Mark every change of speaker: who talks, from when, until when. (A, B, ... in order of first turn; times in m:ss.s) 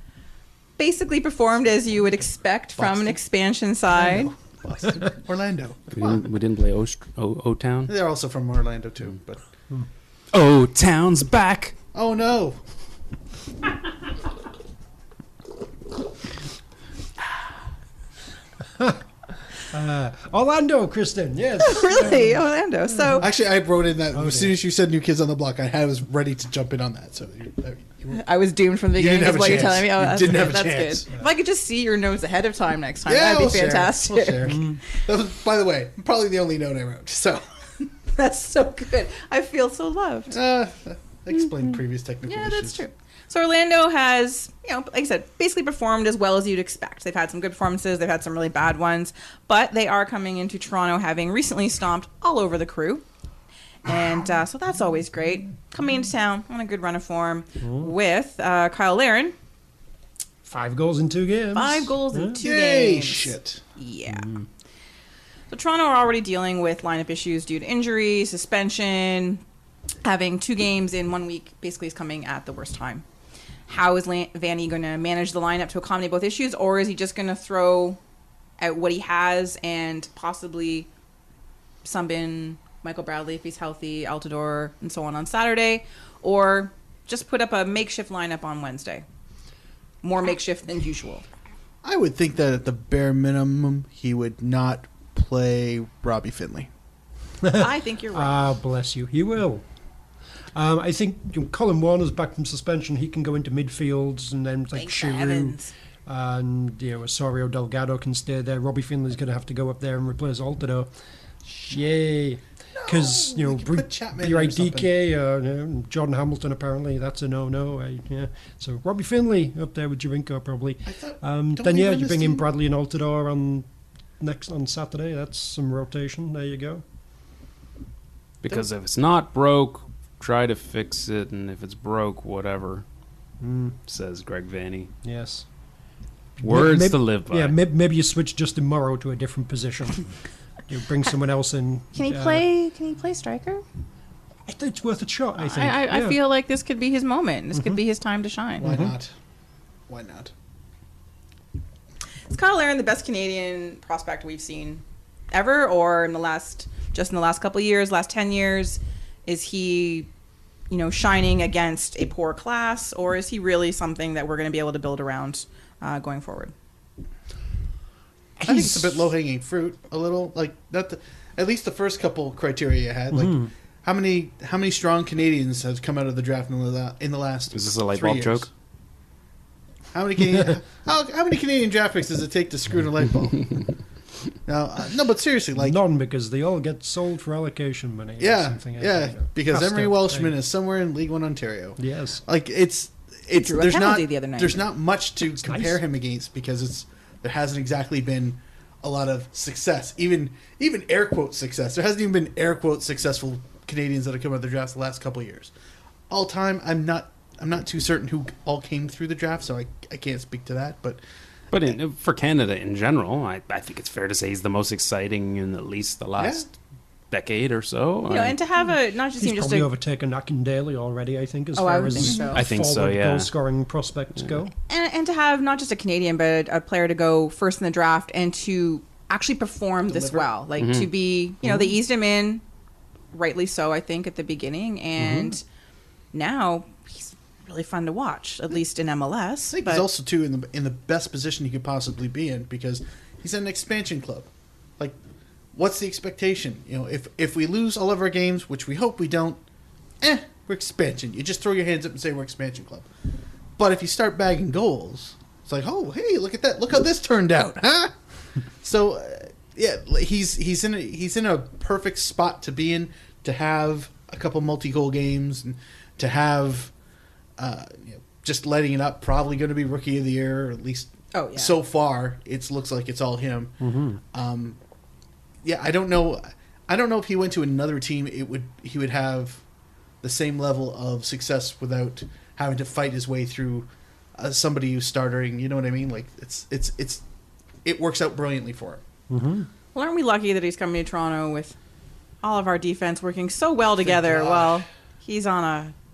0:00.8-0:04.3 A
0:02.8-0:03.2 B
0:03.9-0:06.2 B
0:05.9-0:07.9 C
0:07.9-0:09.4 B
0:10.3-0:11.8 C
0:11.9-0:12.6 B
0:19.6-0:22.4 D
0:21.6-0:23.3 A
0:23.2-0:28.2 B
0:24.1-0:24.6 D
0:28.1-0:34.6 A
0:28.9-0:31.1 B
0:33.1-0:37.5 B
0:34.5-0:34.8 D
0:38.2-0:40.3 A
0:40.3-0:42.8 B
0:42.3-0:53.0 A
0:53.8-0:59.3 A
0:57.6-0:57.9 D
1:00.4-1:02.4 D
1:01.5-1:04.3 A
1:02.4-1:03.6 B
1:04.1-1:04.4 D
1:05.5-1:09.4 A
1:10.0-1:13.0 A
1:13.7-1:18.0 A
1:18.6-1:20.9 A
1:21.8-1:29.0 A
1:30.0-1:31.2 A
1:31.8-1:36.7 B
1:37.4-1:39.6 D
1:37.5-1:38.5 A
1:40.6-1:50.9 D
1:44.7-1:45.7 A
1:51.5-2:03.7 D
1:52.8-1:54.9 B
2:00.9-2:02.5 B
2:04.2-2:06.8 D
2:08.4-2:12.8 C
2:13.4-2:13.8 D
2:13.9-2:14.9 C
2:15.0-2:15.5 D
2:16.4-2:20.1 D
2:16.4-2:17.6 C
2:20.7-2:22.5 D
2:21.9-2:23.6 A
2:24.5-2:26.2 D
2:25.4-2:28.7 A
2:28.6-2:29.1 B
2:28.6-2:29.0 D
2:29.9-2:30.3 B
2:32.3-2:40.1 A
2:40.7-2:46.5 A
2:48.4-2:49.0 D
2:48.4-2:58.5 B
2:53.1-2:53.5 D
2:57.5-2:58.5 C
2:59.9-3:03.7 B
3:04.5-3:05.8 B
3:05.6-3:10.4 D
3:08.2-3:25.5 B
3:11.8-3:12.2 D
3:13.3-3:14.7 A
3:15.2-3:15.8 D
3:26.1-3:31.0 B
3:31.5-3:36.5 C
3:36.2-3:36.4 B
3:37.1-3:38.4 C
3:38.1-3:39.7 A
3:39.2-3:44.5 D
3:41.6-3:42.4 A
3:42.3-3:43.3 C
3:44.7-3:52.4 A
3:49.9-3:50.3 B
3:50.6-3:50.9 C
3:53.1-3:55.4 A
3:56.1-3:59.9 A
3:59.5-4:05.0 B
4:05.5-4:09.4 B
4:10.0-4:12.9 B
4:13.6-4:17.9 B
4:18.6-4:26.7 B
4:27.4-4:33.6 B
4:31.1-4:31.6 A
4:33.6-4:34.0 D
4:34.1-4:34.6 B
4:35.4-4:39.4 B
4:40.0-4:47.0 B
4:47.6-4:48.8 B
4:49.1-4:49.5 D
4:49.7-4:51.6 A
4:52.2-4:55.7 A
4:53.8-4:54.6 B